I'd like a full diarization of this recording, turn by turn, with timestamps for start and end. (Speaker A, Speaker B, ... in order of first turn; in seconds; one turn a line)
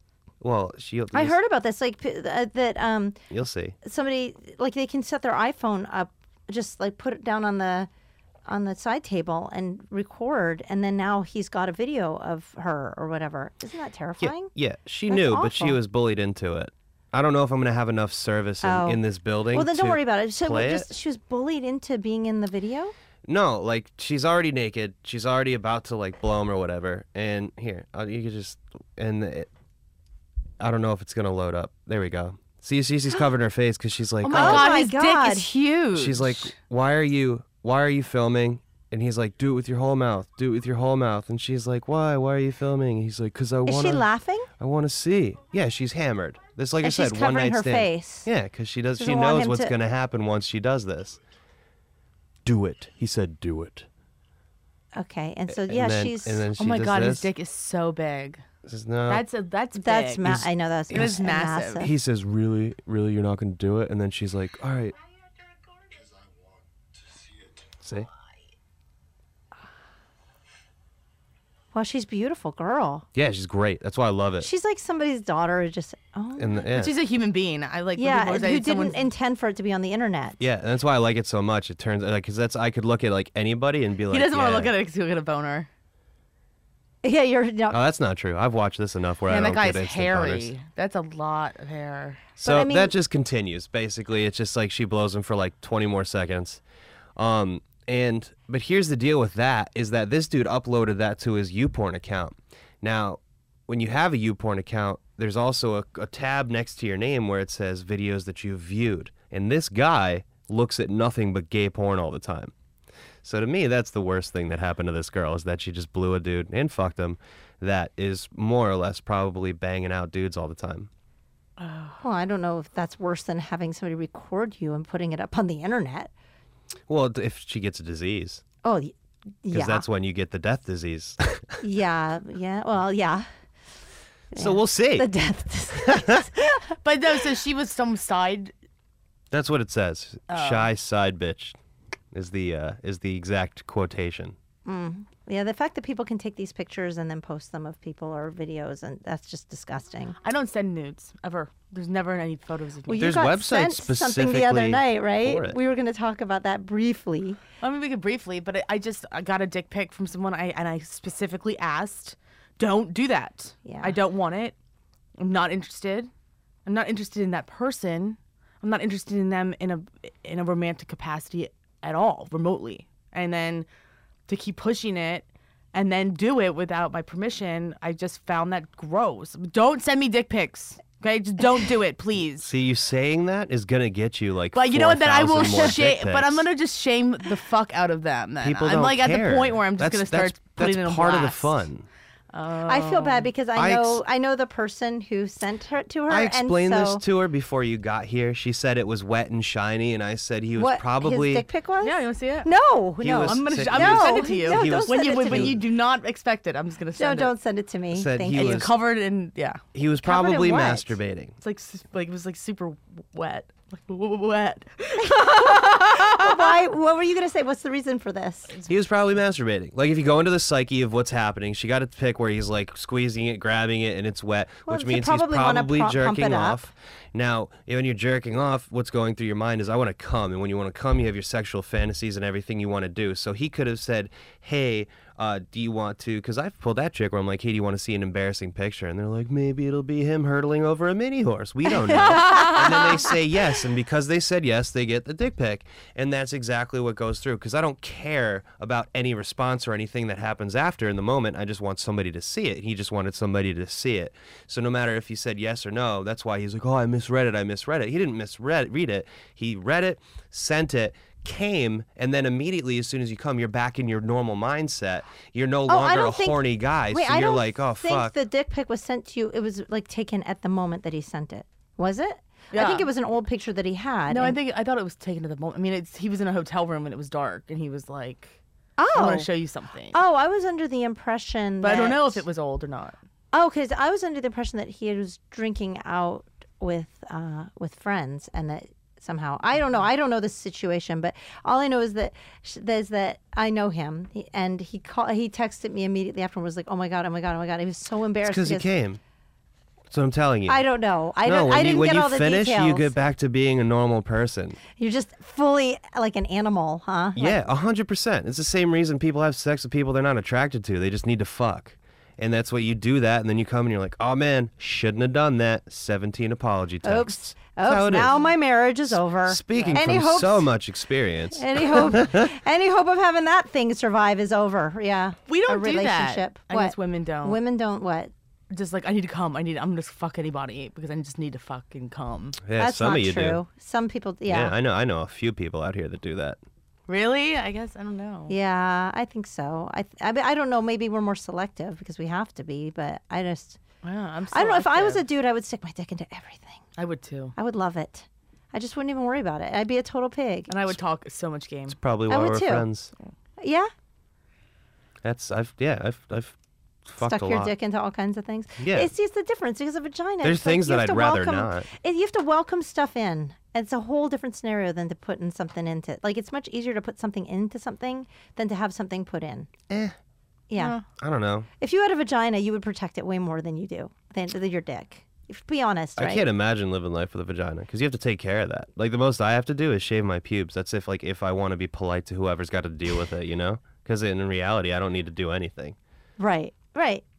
Speaker A: 0.4-1.4
Speaker B: 1.1-3.2
Speaker A: 3.3-3.8
Speaker B: 3.8-7.9
Speaker B: 8.4-14.5
Speaker A: 14.2-20.9
Speaker B: 15.1-15.8
Speaker B: 18.6-19.0
Speaker B: 19.5-22.9
Speaker A: 23.2-29.5
Speaker A: 30.6-34.7
Speaker C: 34.2-36.5
Speaker B: 34.3-35.5
Speaker A: 35.9-44.1
Speaker B: 43.6-44.5
Speaker A: 44.6-51.2
Speaker B: 46.8-48.3
Speaker B: 49.0-49.7
Speaker A: 52.4-53.9
Speaker B: 55.0-56.5
Speaker A: 55.5-57.3
Speaker C: 56.6-58.4
Speaker A: 58.6-59.2
Speaker C: 59.1-61.8
Speaker B: 59.8-61.9
Speaker A: 60.2-61.1
Speaker A: 61.8-64.9
Speaker A: 67.8-68.1
Speaker B: 71.7-73.1
Speaker A: 73.1-74.5
Speaker B: 74.4-76.7
Speaker A: 76.4-76.9
Speaker C: 76.7-79.1
Speaker B: 78.0-80.4
Speaker A: 80.4-84.7
Speaker C: 84.1-85.7
Speaker B: 87.0-87.8
Speaker A: 87.7-90.5
Speaker C: 89.3-92.3
Speaker A: 92.4-96.6
Speaker B: 92.4-92.9
Speaker A: 97.2-112.5
Speaker A: 113.2-120.9
Speaker C: 121.6-122.0
Speaker B: 122.0-126.1
Speaker A: 126.9-128.4
Speaker B: 128.6-129.8
Speaker A: 129.5-131.6
Speaker B: 131.6-133.2
Speaker B: 134.3-136.8
Speaker A: 134.3-135.1
Speaker A: 135.7-136.2
Speaker C: 136.8-138.5
Speaker A: 139.3-141.6
Speaker C: 140.3-140.7
Speaker A: 142.1-144.3
Speaker B: 144.6-150.2
Speaker C: 150.2-153.1
Speaker B: 152.8-157.4
Speaker A: 153.0-155.6
Speaker C: 157.6-164.5
Speaker B: 163.6-164.0
Speaker C: 165.2-166.1
Speaker C: 166.6-173.7
Speaker C: 174.3-182.5
Speaker A: 182.4-186.5
Speaker C: 184.5-191.6
Speaker A: 188.4-191.8
Speaker C: 192.3-193.3
Speaker B: 192.7-197.0
Speaker A: 193.6-194.0
Speaker A: 196.1-201.5
Speaker B: 200.6-205.6
Speaker C: 201.8-202.5
Speaker A: 203.0-205.6
Speaker C: 203.2-207.3
Speaker B: 207.0-208.7
Speaker A: 207.9-208.7
Speaker C: 208.3-209.6
Speaker A: 209.7-211.3
Speaker B: 210.0-211.0
Speaker C: 211.4-216.6
Speaker B: 215.0-218.6
Speaker A: 218.7-268.1
Speaker B: 224.7-226.7
Speaker C: 241.9-243.0
Speaker B: 242.0-242.8
Speaker B: 265.7-274.4
Speaker C: 272.5-272.9
Speaker C: 274.1-278.4
Speaker B: 278.8-279.3
Speaker C: 278.9-280.0
Speaker B: 279.9-282.2
Speaker C: 281.6-283.0
Speaker B: 283.3-298.7
Speaker A: 298.2-299.0
Speaker A: 299.9-300.6
Speaker B: 300.5-302.9
Speaker A: 301.2-304.6
Speaker B: 304.8-307.5
Speaker A: 307.1-318.2
Speaker B: 316.8-320.5
Speaker A: 318.9-322.3
Speaker B: 321.3-328.1
Speaker C: 325.3-327.4
Speaker C: 328.5-332.4
Speaker A: 332.4-333.4
Speaker B: 332.6-334.5
Speaker A: 334.3-336.4
Speaker C: 336.9-338.3
Speaker B: 338.3-343.6
Speaker C: 343.8-345.0
Speaker B: 344.3-346.6
Speaker C: 346.8-347.3
Speaker B: 347.4-350.5
Speaker C: 350.5-351.8
Speaker A: 351.7-352.9
Speaker B: 352.1-352.7
Speaker B: 353.4-353.7
Speaker A: 355.0-357.5
Speaker B: 357.0-369.5
Speaker A: 358.6-358.9
Speaker A: 360.2-361.7
Speaker A: 369.7-370.0
Speaker B: 370.5-370.8
Speaker C: 370.6-370.8
Speaker A: 371.0-371.5
Speaker B: 371.6-376.3
Speaker A: 376.0-385.8
Speaker B: 386.2-387.0